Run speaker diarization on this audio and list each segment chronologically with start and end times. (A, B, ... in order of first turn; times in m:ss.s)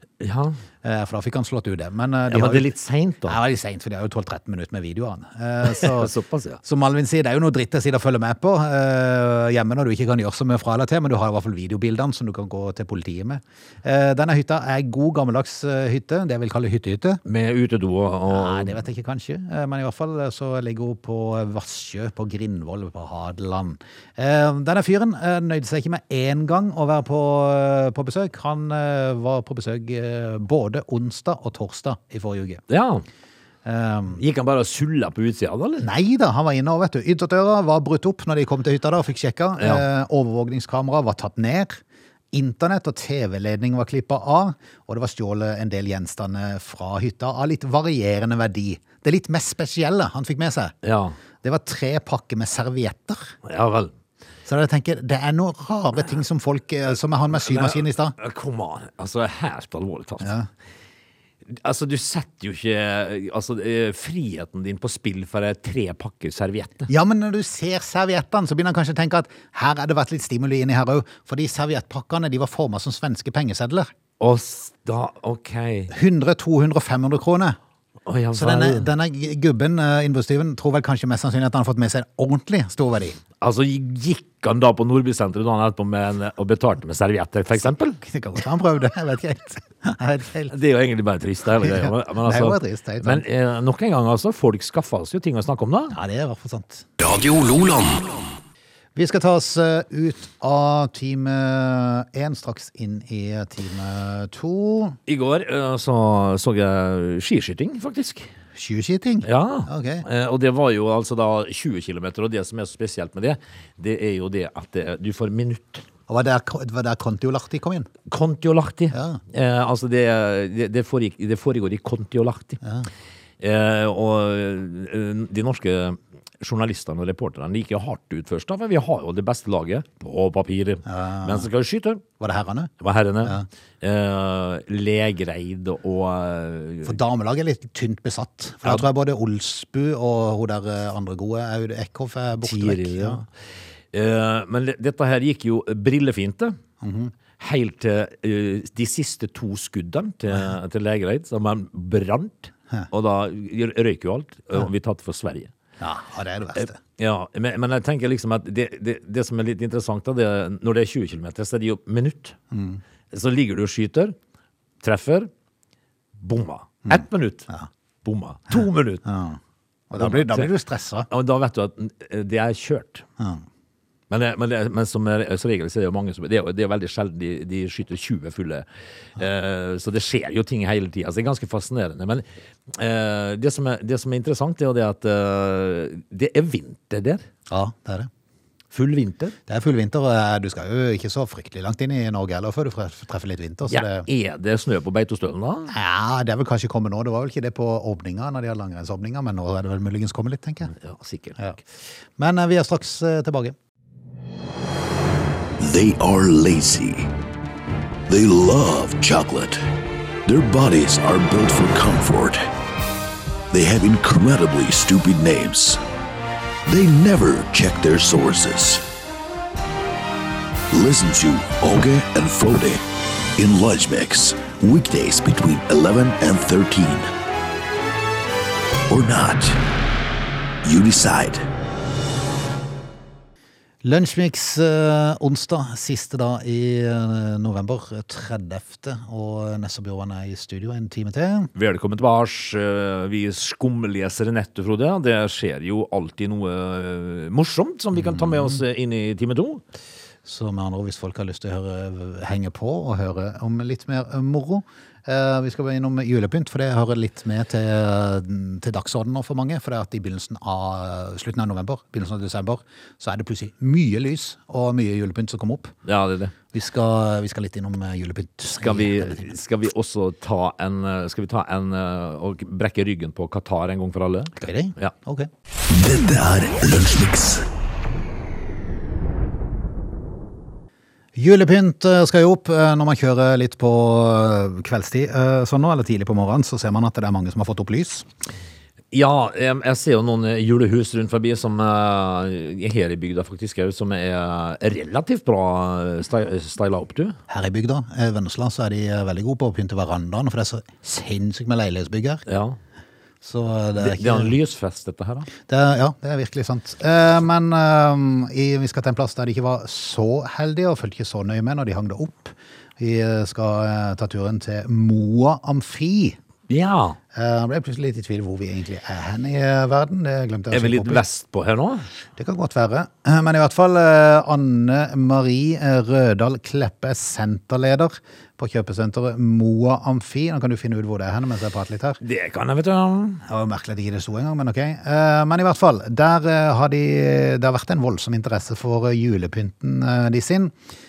0:00.2-0:00.6 A
0:00.8-0:02.7 B
0:02.3-0:03.4 A
0:03.2-0:06.1 B
0:05.7-0:06.6 A
0:06.6-0:17.2 B
0:17.2-0:18.8 A
0:18.3-0:32.6 B
0:32.7-0:33.0 A
0:33.6-0:34.2 B
0:34.2-0:35.9 A
0:35.8-0:41.8 B
0:42.3-0:50.7 B
0:50.8-0:51.2 A
0:51.4-0:53.4 B
0:53.4-0:53.9 A
0:54.5-0:58.2 B
0:57.3-1:00.3 A
1:00.2-1:00.5 B
1:01.5-1:06.9 A
1:06.9-1:13.9 B
1:14.2-1:15.9 A
1:15.9-1:17.6 B
1:18.1-1:18.9 A
1:18.3-1:23.2 B
1:23.4-1:28.0 A
1:28.0-1:30.5 B
1:30.5-1:36.0 A
1:31.6-1:33.2 B
1:35.9-1:36.8 B
1:37.0-1:38.3 C
1:39.0-1:45.0 B
1:45.1-1:48.3 A
1:48.6-1:50.0 B
1:49.2-1:55.8 A
1:56.1-1:57.9 B
1:58.1-2:02.6 A
1:58.9-1:59.2 B
2:02.6-2:02.9 B
2:03.4-2:12.0 A
2:10.9-2:11.5 B
2:12.2-2:12.7 B
2:12.8-2:17.0 A
2:16.8-2:23.2 B
2:22.4-2:23.3 A
2:23.9-2:26.6 A
2:26.8-2:27.1 B
2:27.4-2:35.5 A
2:35.8-2:36.8 B
2:36.6-2:42.4 A
2:42.5-2:42.8 B
2:43.1-2:44.2 A
2:44.8-2:45.3 A
2:46.2-2:47.5 A
2:46.9-2:47.7 B
2:48.0-2:49.0 A
2:49.0-2:49.4 B
2:49.9-2:51.1 B
2:50.0-2:50.5 A
2:51.1-2:53.0 A
2:54.1-2:58.6 A
2:59.2-3:07.2 A
3:07.5-3:08.1 B
3:08.7-3:09.4 A
3:09.5-3:14.1 B
3:13.7-3:15.7 A
3:15.7-3:20.7 B
3:20.7-3:21.4 A
3:22.2-3:23.6 B
3:25.6-3:27.1 C
3:28.1-3:29.6 C
3:30.2-3:32.5 C
3:33.5-3:35.8 C
3:36.7-3:38.8 C
3:40.7-3:42.8 C
3:43.4-3:47.1 C
3:48.9-3:49.6 C
3:50.6-3:51.5 C
3:53.8-4:01.5 B
4:01.6-4:09.6 A
4:08.1-4:08.5 B
4:10.2-4:25.7 B
4:25.9-4:26.3 A
4:26.5-4:29.3 B
4:28.6-4:34.9 A
4:34.4-4:35.3 B
4:35.7-4:37.5 C
4:41.2-4:48.1 B
4:48.9-4:57.2 A
4:57.3-5:02.2 B
5:02.3-5:02.6 A
5:03.2-5:04.3 B
5:03.8-5:05.3 A
5:05.4-5:16.2 B
5:16.5-5:17.0 A
5:17.1-5:21.0 B
5:20.5-5:21.9 A
5:22.2-5:32.0 B
5:32.0-5:33.2 A
5:33.2-5:40.5 B